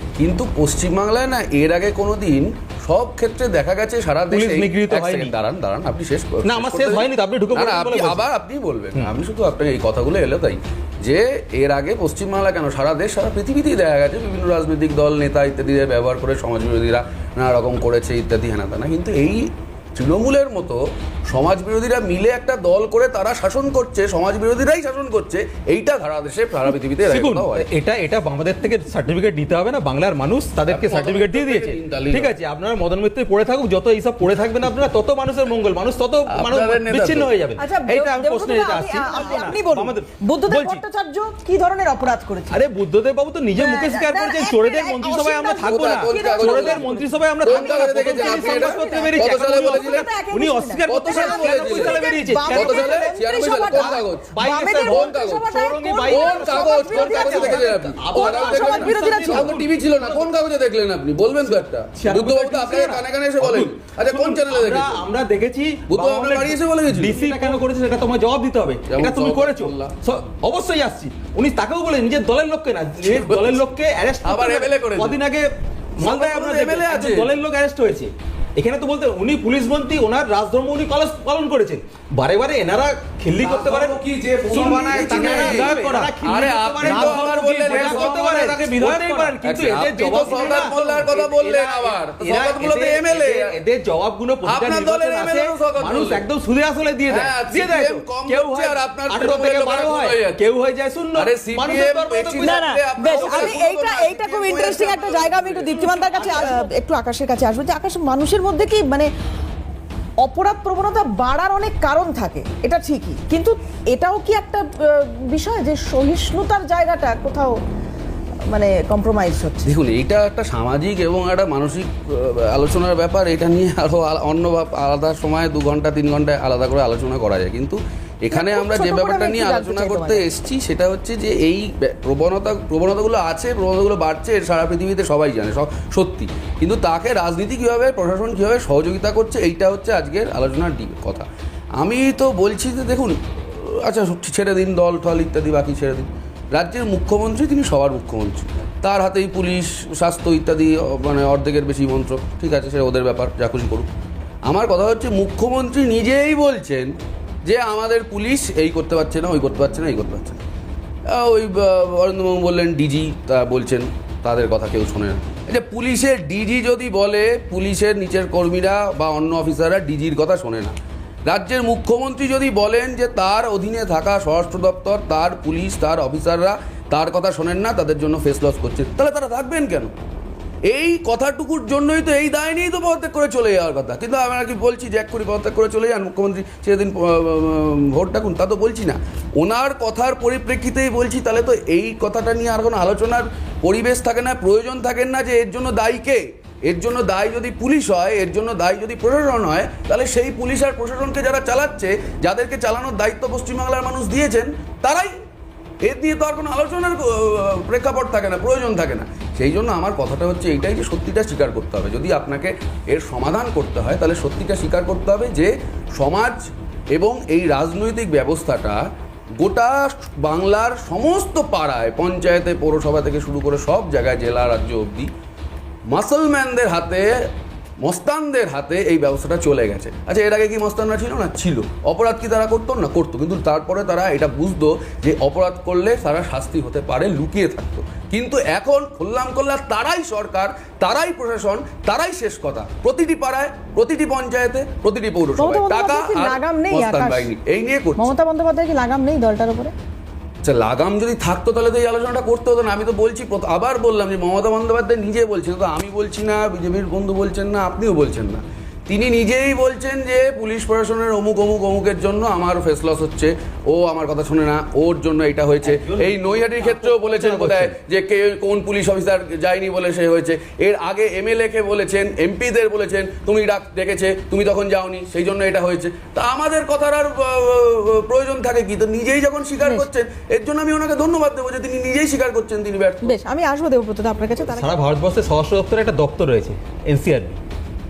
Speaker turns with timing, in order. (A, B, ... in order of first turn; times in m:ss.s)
0:00.2-0:27.6 A
0:04.3-0:05.3 B
0:06.4-0:08.2 B
0:27.0-0:40.8 B
0:30.7-0:32.4 A
0:36.3-0:37.3 A
0:37.6-0:42.6 C
0:42.5-0:53.1 B
0:43.6-0:59.5 C
0:45.6-0:46.8 A
0:47.4-0:50.1 A
0:50.9-0:55.5 A
0:53.7-1:00.3 B
0:56.1-1:05.0 A
1:01.5-1:24.0 B
1:05.9-1:07.6 A
1:08.9-1:09.9 A
1:13.0-1:13.6 A
1:14.2-1:15.2 A
1:16.0-1:17.3 A
1:23.4-1:26.1 D
1:24.4-1:28.2 A
1:24.5-1:43.6 B
1:26.8-1:29.4 D
1:29.4-1:33.5 A
1:30.0-1:31.0 D
1:34.4-1:36.2 A
1:37.1-1:40.4 A
1:41.1-1:46.6 A
1:42.4-1:49.1 C
1:46.2-1:46.6 B
1:50.2-1:57.6 C
1:58.5-1:59.7 C
1:59.6-2:21.3 A
2:08.3-2:10.2 C
2:21.8-2:33.9 A
2:34.5-2:36.9 A
2:37.4-2:40.4 A
2:41.1-2:50.7 A
2:51.2-2:59.9 A
3:00.7-3:25.1 A
3:25.8-3:38.8 A
3:39.4-3:45.1 A
3:45.9-3:47.3 A
3:47.8-4:08.1 A
4:05.4-4:07.3 C
4:08.0-4:09.7 C
4:10.4-4:43.1 A
4:25.6-4:27.7 B
4:43.0-4:44.7 C
4:44.4-4:47.4 B